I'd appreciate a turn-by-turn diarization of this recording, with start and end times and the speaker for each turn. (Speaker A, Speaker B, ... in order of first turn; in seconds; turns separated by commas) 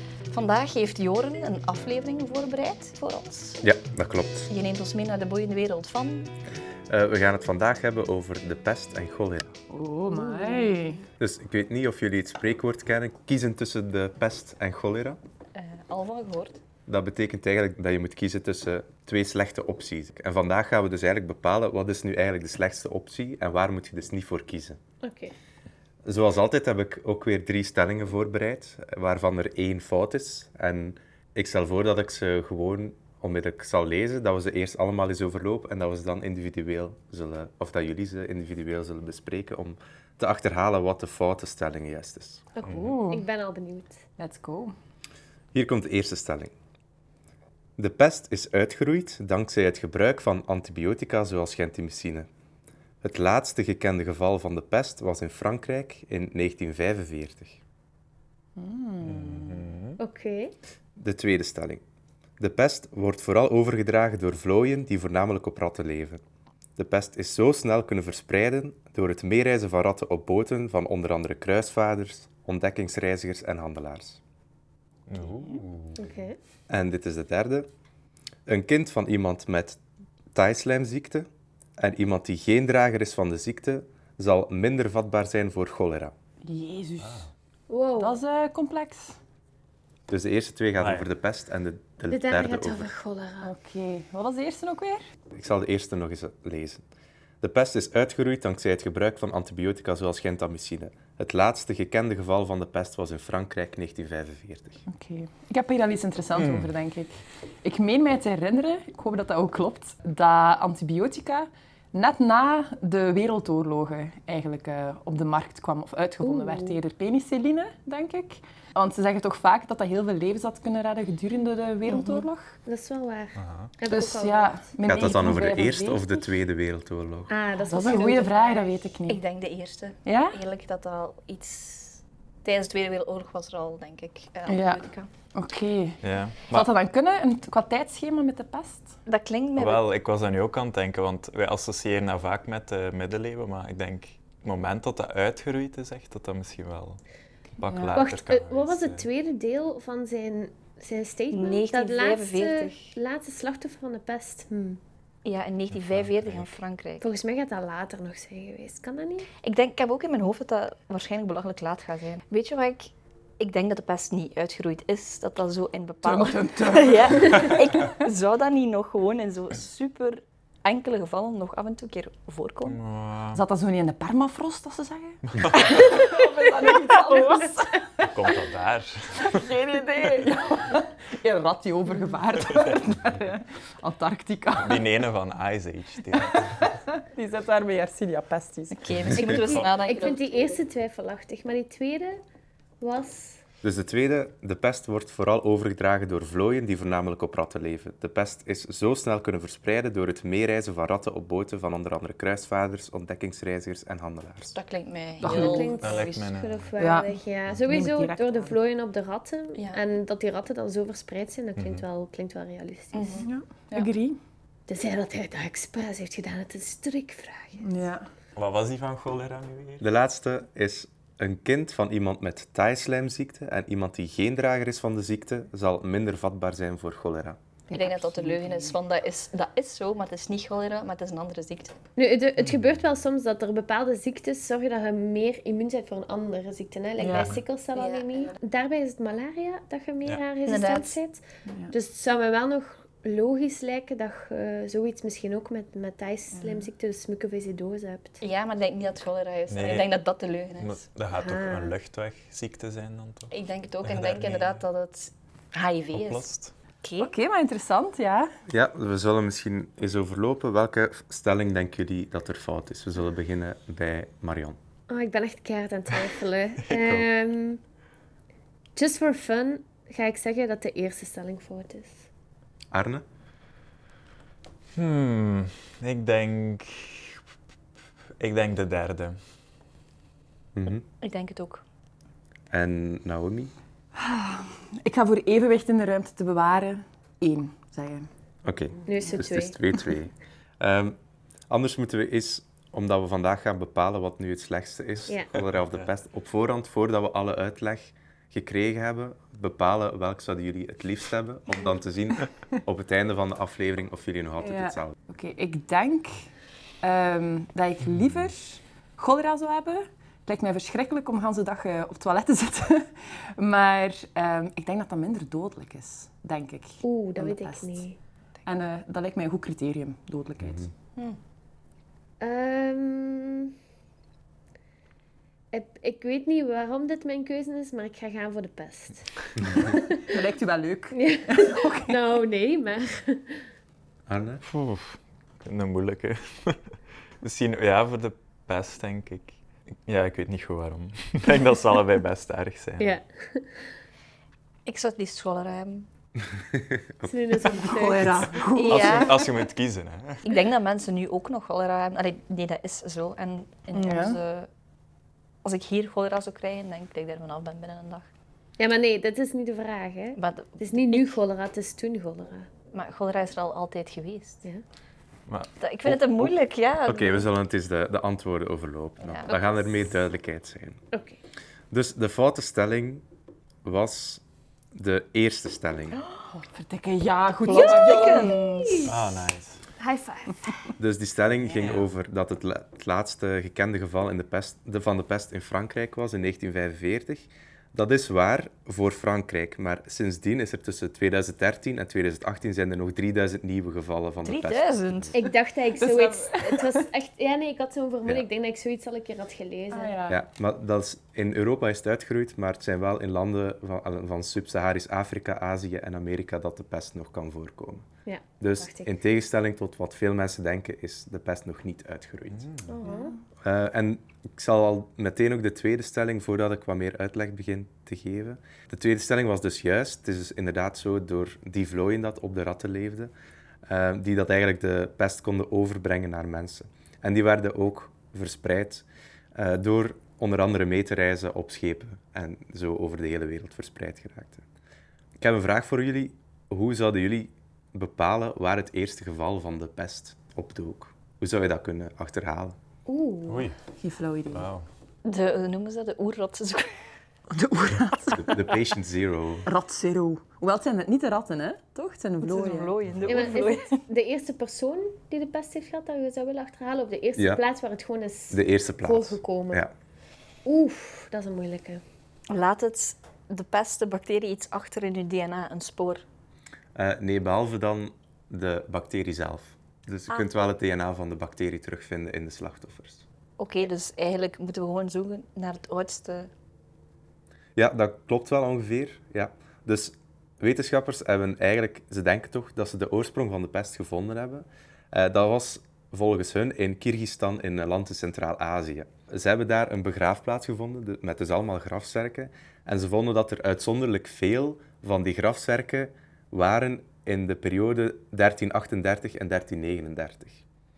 Speaker A: 0.3-3.6, Speaker B: 3.6-4.5, Speaker A: 4.5-6.3, Speaker B: 6.9-9.5, Speaker C: 9.7-11.1, Speaker D: 10.1-10.7, Speaker B: 11.2-15.2, Speaker A: 15.5-16.6, Speaker B: 16.9-24.8, Speaker D: 25.0-25.3, Speaker B: 26.0-42.4, Speaker D: 42.5-44.0, Speaker E: 42.6-43.0, Speaker C: 42.7-43.3, Speaker C: 44.2-44.7, Speaker B: 45.5-46.5, Speaker B: 47.8-52.3, Speaker B: 53.0-57.6, Speaker C: 58.5-59.7, Speaker E: 59.0-60.0, Speaker D: 60.0-60.5, Speaker B: 61.0-61.8, Speaker B: 62.4-66.2, Speaker B: 66.8-74.2, Speaker E: 75.1-76.0, Speaker D: 76.0-76.4, Speaker B: 76.7-77.7, Speaker B: 78.5-79.8, Speaker B: 80.3-86.1, Speaker C: 86.4-87.2, Speaker E: 87.0-87.3, Speaker D: 87.7-88.2, Speaker C: 88.0-89.2, Speaker B: 90.1-92.9, Speaker E: 90.8-91.0, Speaker D: 92.1-93.5, Speaker C: 93.4-95.0, Speaker B: 95.3-96.8, Speaker B: 97.4-104.8, Speaker C: 104.9-122.5, Speaker E: 106.3-106.7, Speaker D: 116.2-116.7, Speaker D: 121.9-124.6, Speaker E: 123.4-123.7, Speaker C: 123.9-126.1, Speaker B: 124.8-127.3, Speaker D: 127.3-128.7, Speaker C: 127.7-129.2, Speaker A: 129.1-135.1, Speaker C: 130.0-130.4, Speaker C: 134.5-138.9, Speaker E: 136.0-136.7, Speaker A: 139.1-139.8, Speaker E: 139.6-147.0, Speaker E: 147.6-149.1, Speaker C: 147.7-148.0, Speaker D: 147.9-154.8, Speaker A: 151.3-152.9, Speaker A: 155.2-157.1, Speaker E: 155.8-156.5, Speaker D: 157.0-159.3, Speaker A: 159.4-172.8, Speaker C: 166.0-167.6, Speaker E: 172.7-173.4, Speaker C: 173.3-178.2, Speaker E: 175.3-175.9, Speaker A: 175.6-176.1, Speaker E: 178.1-179.4, Speaker C: 179.2-184.9, Speaker E: 184.6-186.7, Speaker C: 186.1-189.5, Speaker A: 188.7-190.6, Speaker E: 189.1-189.7, Speaker D: 189.4-192.2, Speaker D: 192.8-193.4, Speaker B: 193.6-204.5, Speaker A: 204.5-205.8, Speaker C: 205.2-205.9, Speaker D: 205.2-213.2, Speaker E: 205.8-206.7, Speaker C: 206.8-208.6, Speaker A: 209.5-209.8, Speaker E: 211.6-211.8, Speaker A: 212.9-213.9, Speaker C: 213.2-214.2, Speaker D: 214.7-217.8, Speaker C: 217.6-218.1, Speaker E: 218.3-219.8, Speaker B: 219.8-227.4, Speaker C: 227.7-228.7, Speaker A: 227.7-231.7, Speaker D: 231.9-248.2, Speaker C: 237.0-237.4, Speaker A: 237.8-238.3, Speaker A: 240.4-241.0, Speaker C: 241.4-241.7, Speaker C: 246.3-246.7, Speaker A: 248.2-250.8, Speaker E: 249.5-250.0, Speaker E: 250.6-253.3, Speaker D: 251.1-251.7, Speaker A: 253.3-256.3, Speaker E: 253.8-254.6, Speaker E: 255.9-256.5, Speaker A: 256.8-257.1, Speaker C: 257.0-258.3, Speaker B: 258.5-264.6, Speaker D: 264.9-267.6, Speaker E: 266.7-267.1, Speaker D: 268.8-272.1, Speaker B: 272.7-273.0, Speaker E: 274.8-277.2, Speaker E: 278.2-279.2, Speaker B: 280.5-280.8, Speaker A: 281.0-281.6, Speaker B: 282.5-283.5, Speaker C: 283.9-288.1, Speaker B: 288.4-291.0, Speaker D: 288.9-289.6, Speaker B: 291.5-304.9, Speaker C: 304.4-306.2, Speaker C: 306.8-317.8, Speaker D: 316.8-318.0, Speaker C: 318.4-320.7, Speaker D: 322.2-323.5, Speaker D: 325.5-330.0, Speaker C: 330.1-332.0, Speaker D: 330.9-333.4, Speaker B: 334.1-334.4, Speaker E: 334.4-336.6, Speaker E: 337.2-342.9, Speaker D: 342.8-343.6, Speaker A: 344.6-345.9, Speaker B: 346.5-347.1, Speaker D: 347.0-348.4, Speaker C: 347.4-349.1, Speaker A: 348.5-349.3, Speaker E: 348.7-350.2, Speaker A: 350.2-354.5, Speaker C: 353.7-354.2, Speaker A: 355.4-358.1, Speaker D: 358.6-362.5, Speaker A: 360.1-361.2, Speaker A: 362.7-364.4, Speaker A: 365.6-367.3, Speaker B: 365.9-366.3, Speaker B: 366.8-370.8, Speaker A: 369.0-369.6, Speaker D: 369.3-369.5, Speaker D: 370.9-371.2, Speaker B: 371.7-373.0, Speaker B: 373.6-374.2, Speaker B: 374.7-376.0, Speaker C: 376.4-378.8, Speaker A: 377.4-378.9, Speaker D: 377.5-378.9, Speaker E: 378.8-379.6, Speaker D: 379.8-380.4, Speaker B: 380.8-395.0, Speaker E: 381.4-381.9, Speaker A: 394.2-395.2, Speaker D: 395.1-399.9, Speaker C: 395.8-396.7, Speaker C: 399.7-400.2, Speaker B: 400.1-407.9, Speaker D: 408.1-408.9, Speaker B: 408.4-412.5, Speaker E: 412.3-412.7, Speaker D: 412.7-413.1, Speaker C: 412.8-413.2, Speaker B: 413.4-423.1, Speaker B: 423.6-434.4, Speaker B: 435.2-442.6, Speaker D: 442.9-443.5, Speaker E: 443.3-443.6, Speaker C: 443.6-444.5, Speaker E: 444.3-444.7, Speaker A: 445.0-446.8, Speaker C: 447.3-448.5, Speaker B: 448.1-449.5, Speaker C: 449.4-452.8, Speaker A: 452.2-453.8, Speaker E: 452.8-453.3, Speaker D: 453.1-459.6, Speaker B: 457.2-457.4, Speaker B: 458.3-459.7, Speaker D: 460.4-461.8, Speaker A: 462.3-466.0, Speaker B: 466.7-473.0, Speaker A: 473.4-476.3, Speaker B: 477.6-500.4